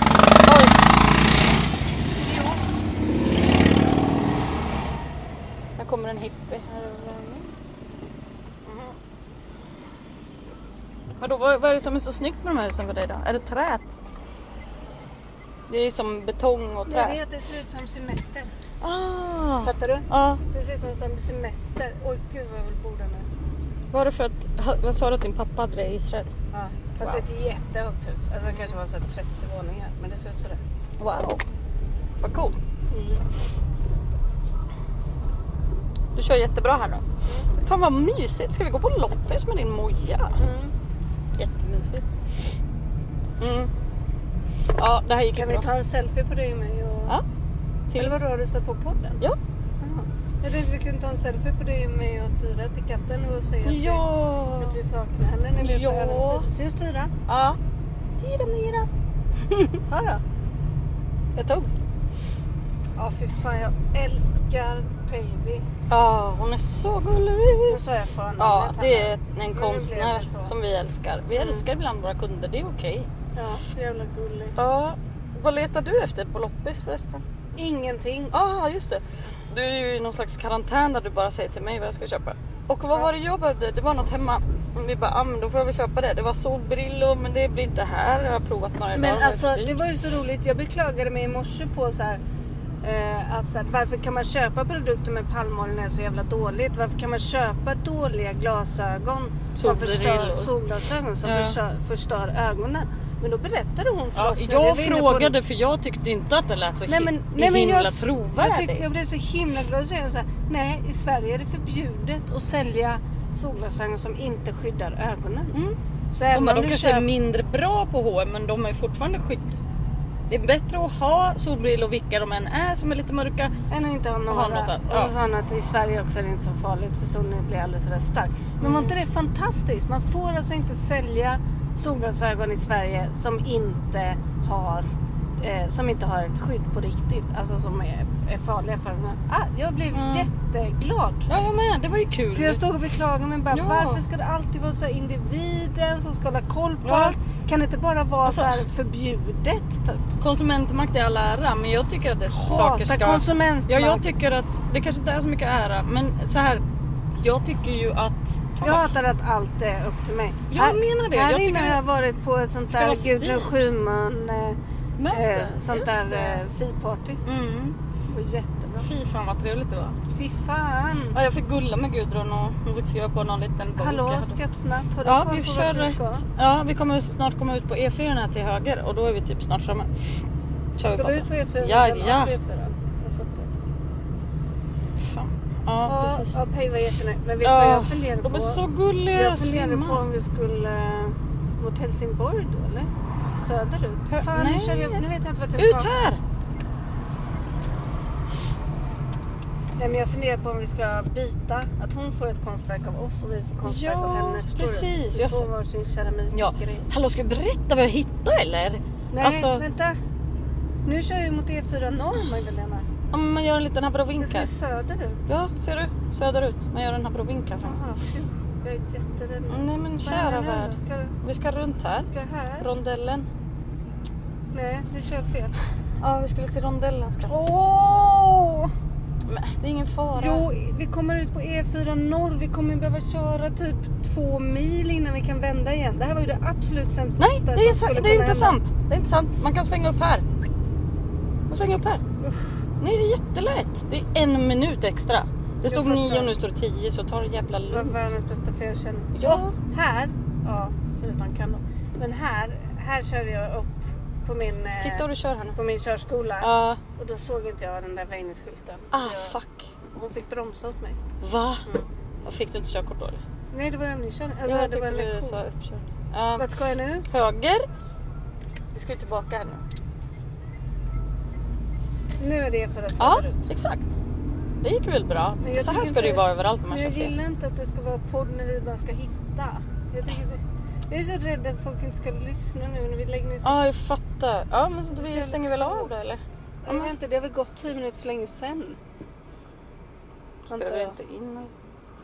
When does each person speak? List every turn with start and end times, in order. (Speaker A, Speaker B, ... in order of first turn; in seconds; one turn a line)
Speaker A: 0.4-0.8
Speaker A: 2.2-2.8
Speaker A: 5.8-7.5
Speaker A: 8.7-9.0
Speaker A: 11.2-13.9
Speaker A: 15.7-17.2
Speaker B: 16.9-18.5
Speaker A: 18.8-20.4
Speaker B: 19.6-23.3
Speaker A: 23.9-26.3
Speaker B: 26.5-30.6
Speaker A: 28.5-28.8
Speaker A: 31.0-31.4
Speaker A: 32.2-32.6
Speaker B: 32.9-33.2
Speaker A: 36.1-40.4
Speaker B: 40.4-40.7
Speaker A: 41.4-42.0
Speaker A: 43.4-43.7
Speaker A: 44.8-45.7
Speaker B: 45.3-47.2
Speaker A: 47.9-48.1
Speaker B: 48.0-49.2
Speaker B: 49.8-54.0
Speaker A: 53.6-54.8
Speaker B: 54.6-57.1
Speaker A: 55.6-56.5
Speaker A: 57.3-57.6
Speaker A: 58.2-58.9
Speaker A: 59.5-59.8
Speaker B: 59.9-60.2
Speaker A: 61.4-61.7
Speaker B: 63.0-65.7
Speaker A: 65.9-67.8
Speaker B: 67.7-70.5
Speaker A: 68.4-73.1
Speaker B: 71.3-71.7
Speaker B: 73.3-74.6
Speaker A: 74.6-77.2
Speaker B: 77.6-78.3
Speaker A: 78.3-89.7
Speaker B: 88.9-92.2
Speaker B: 92.8-105.4
Speaker A: 99.5-100.5
Speaker A: 101.2-101.6
Speaker A: 104.2-108.8
Speaker B: 106.9-115.6
Speaker B: 116.1-117.1
Speaker A: 116.3-119.5
Speaker A: 120.3-123.5
Speaker B: 123.7-134.9
Speaker A: 124.3-125.1
Speaker A: 128.6-128.9
Speaker B: 135.4-141.3
Speaker A: 139.9-140.3
Speaker A: 141.3-142.6
Speaker B: 142.3-150.1
Speaker A: 143.5-144.0
Speaker A: 146.8-147.2
Speaker A: 148.2-148.6
Speaker A: 150.2-156.6
Speaker B: 152.3-154.1
Speaker A: 157.2-158.9
Speaker B: 158.6-164.6
Speaker A: 160.5-161.8
Speaker A: 162.7-163.7
Speaker A: 165.0-166.4
Speaker B: 165.1-167.2
Speaker A: 167.2-167.8
Speaker B: 168.1-168.9
Speaker A: 168.8-170.0
Speaker B: 170.1-171.2
Speaker A: 171.1-174.4
Speaker B: 173.8-176.2
Speaker A: 175.0-180.2
Speaker A: 180.8-182.3
Speaker B: 180.9-183.5
Speaker A: 185.0-186.3
Speaker B: 185.8-188.6
Speaker A: 187.4-190.0
Speaker B: 189.1-195.9
Speaker A: 194.1-195.0
Speaker A: 195.6-196.2
Speaker B: 199.8-206.9
Speaker A: 203.6-205.5
Speaker A: 206.3-209.6
Speaker B: 209.1-210.0
Speaker B: 210.8-212.9
Speaker A: 213.1-214.5
Speaker B: 214.2-215.2
Speaker A: 215.3-217.8
Speaker B: 217.6-221.2
Speaker A: 219.5-223.3
Speaker B: 222.1-222.7
Speaker B: 224.5-225.5
Speaker A: 226.0-227.3
Speaker B: 227.3-228.7
Speaker A: 229.2-230.4
Speaker B: 230.2-238.6
Speaker A: 237.2-240.2
Speaker A: 241.5-242.0
Speaker B: 242.2-242.6
Speaker A: 242.8-248.0
Speaker B: 245.7-246.3
Speaker B: 247.7-259.4
Speaker A: 249.1-249.6
Speaker A: 254.8-255.6
Speaker A: 256.4-256.8
Speaker A: 258.9-259.7
Speaker B: 259.9-261.0
Speaker A: 261.2-261.7
Speaker A: 262.2-263.2
Speaker B: 263.5-265.4
Speaker A: 264.5-266.5
Speaker B: 266.4-267.1
Speaker A: 267.1-267.7
Speaker A: 268.7-269.6
Speaker B: 272.2-273.5
Speaker A: 273.0-273.9
Speaker A: 274.6-277.1
Speaker B: 275.4-283.7
Speaker A: 283.4-286.9
Speaker B: 284.9-285.9
Speaker B: 286.6-288.8
Speaker A: 290.5-291.5
Speaker B: 290.5-291.0